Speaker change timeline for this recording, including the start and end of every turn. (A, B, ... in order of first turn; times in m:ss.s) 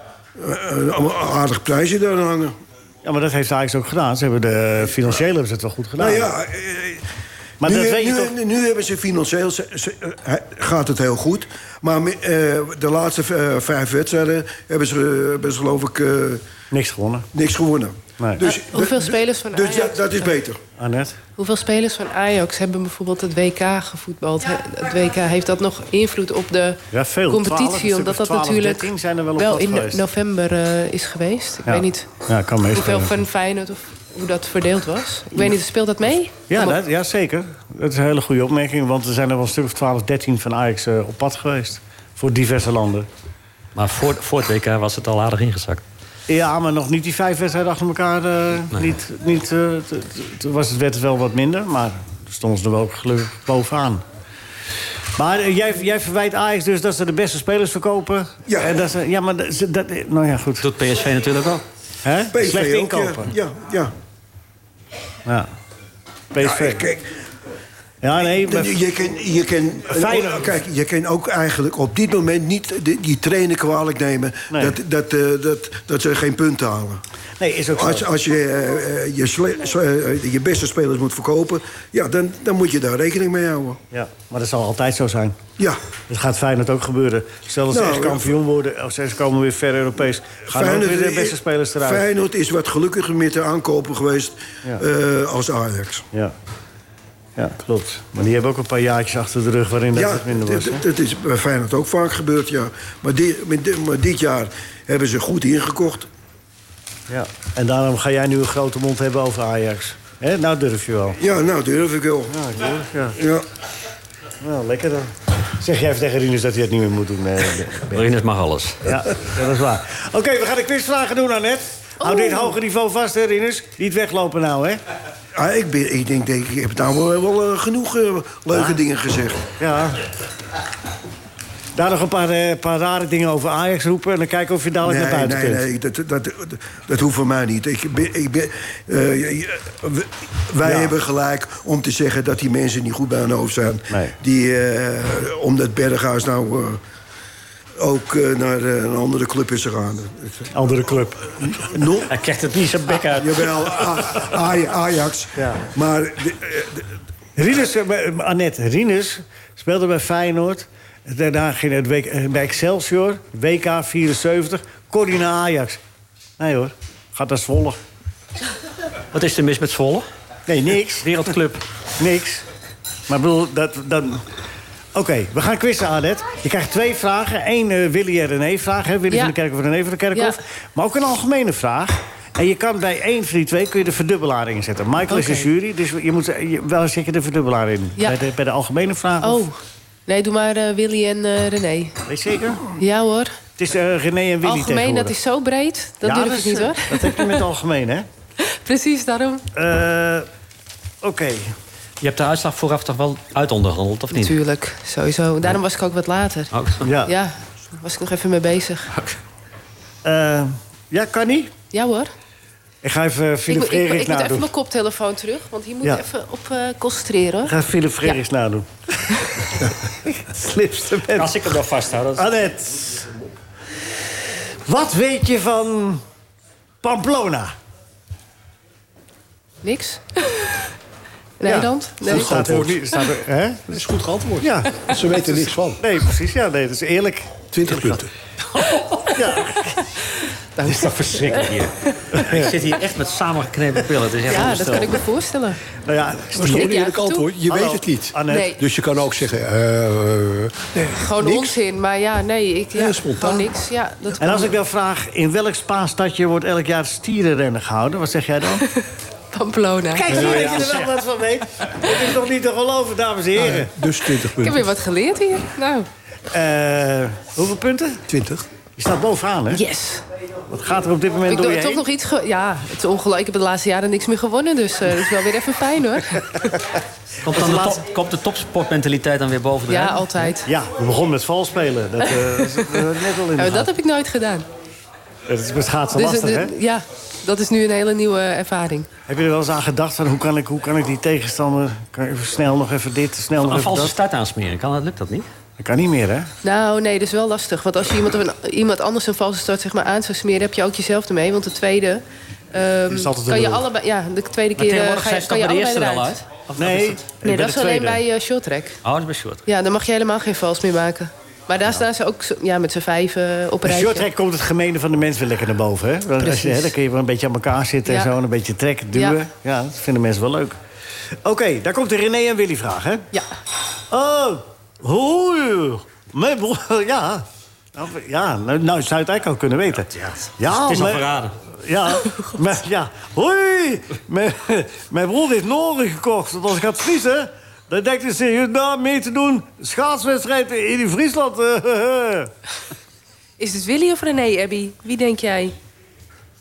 0:00.4-0:02.6 A
0:03.0-0:06.3 B
0:06.0-0:07.0 A
0:07.6-0:08.3 B
0:07.6-0:16.4 A
0:16.7-0:17.3 B
0:17.3-0:20.6 A
0:18.4-0:20.3 C
0:20.8-0:21.2 B
0:21.4-0:32.1 C
0:26.9-0:30.0 B
0:31.6-0:33.2 B
0:32.7-0:36.8 C
0:36.5-0:43.1 B
0:43.7-0:45.8 D
0:46.3-0:54.0 B
0:55.1-1:00.6 B
0:58.5-0:58.7 A
1:00.6-1:01.6 D
1:02.0-1:03.3 B
1:02.3-1:03.9 A
1:06.3-1:06.8 B
1:06.4-1:07.0 A
1:08.0-1:08.8 B
1:08.2-1:17.0 A
1:09.9-1:10.5 B
1:14.5-1:14.8 B
1:17.4-1:18.1 B
1:17.7-1:23.8 A
1:23.9-1:25.4 B
1:26.1-1:32.0 B
1:27.7-1:28.3 A
1:30.5-1:36.0 A
1:37.4-1:40.8 B
1:39.9-1:46.1 A
1:47.1-1:51.2 B
1:51.2-1:52.3 A
1:52.3-1:53.2 B
1:53.2-1:53.4 A
1:54.4-1:58.0 B
1:57.9-1:58.8 D
1:58.8-2:04.8 B
2:02.0-2:02.6 C
2:05.4-2:09.4 A
2:08.5-2:08.8 B
2:09.6-2:10.0 B
2:11.7-2:15.6 B
2:14.8-2:26.8 A
2:20.6-2:20.9 B
2:23.9-2:24.1 B
2:27.8-2:30.5 A
2:30.5-2:31.7 B
2:31.5-2:32.1 A
2:32.1-2:34.3 D
2:33.2-2:36.9 A
2:35.4-2:35.6 B
2:37.4-2:45.8 B
2:46.4-2:47.8 B
2:49.1-2:50.0 D
2:50.5-2:51.3 B
2:51.0-2:51.6 D
2:52.0-2:52.4 B
2:53.1-2:54.3 B
2:54.9-3:09.4 B
3:05.1-3:05.5 C
3:09.2-3:12.0 C
3:12.1-3:12.6 B
3:12.8-3:13.4 C
3:13.6-3:15.1 B
3:14.4-3:17.4 C
3:16.0-3:18.1 B
3:18.4-3:19.4 C
3:19.6-3:20.3 B
3:21.0-3:21.6 B
3:22.0-3:24.4 D
3:24.1-3:26.5 C
3:26.5-3:26.9 D
3:26.8-3:27.2 B
3:27.0-3:28.9 C
3:30.0-3:31.5 B
3:31.7-3:32.1 C
3:32.8-3:34.5 B
3:33.5-3:37.5 C
3:37.4-3:41.5 B
3:41.1-3:42.3 D
3:42.2-3:43.1 B
3:44.6-3:46.0 B
3:46.8-3:47.5 B
3:49.6-3:50.6 C
3:51.4-3:52.4 C
3:51.4-3:53.8 B
3:52.0-3:53.0 E
3:53.7-3:55.8 E
3:54.4-3:58.0 B
3:57.5-3:58.1 E
3:59.1-3:59.9 B
4:00.6-4:01.5 C
4:00.6-4:05.0 D
4:02.1-4:02.5 B
4:04.3-4:05.6 C
4:05.8-4:06.7 B
4:06.3-4:11.6 E
4:06.4-4:07.3 C
4:07.5-4:08.5 B
4:08.3-4:08.6 C
4:11.0-4:14.5 C
4:12.7-4:13.5 E
4:14.2-4:18.6 B
4:18.6-4:20.8 C
4:19.9-4:23.8 B
4:20.1-4:20.9 D
4:23.4-4:24.7 E
4:24.2-4:25.9 C
4:26.3-4:28.0 B
4:28.1-4:28.4 E
4:28.8-4:29.6 B
4:29.5-4:30.0 C
4:30.5-4:31.8 B
4:31.3-4:36.6 C
4:37.2-4:40.3 D
4:37.3-4:37.8 B
4:39.7-4:40.5 C
4:40.4-4:43.7 B
4:42.0-4:44.4 C
4:45.3-4:46.5 B
4:46.0-4:48.9 C
4:49.1-4:53.9 B
4:53.4-4:55.3 D
4:55.6-4:56.3 B
4:56.4-5:06.2 C
5:02.9-5:03.6 B
5:04.6-5:07.0 D
5:06.6-5:08.0 B
5:07.2-5:08.8 C
5:08.8-5:09.4 D
5:09.5-5:14.1 C
5:13.6-5:20.6 B
5:16.2-5:16.7 C
5:17.9-5:18.1 C
5:18.9-5:19.2 C
5:21.2-5:23.1 B
5:23.9-5:31.1 B
5:30.0-5:31.3 D
5:31.6-5:42.3 B
5:43.4-5:45.6 C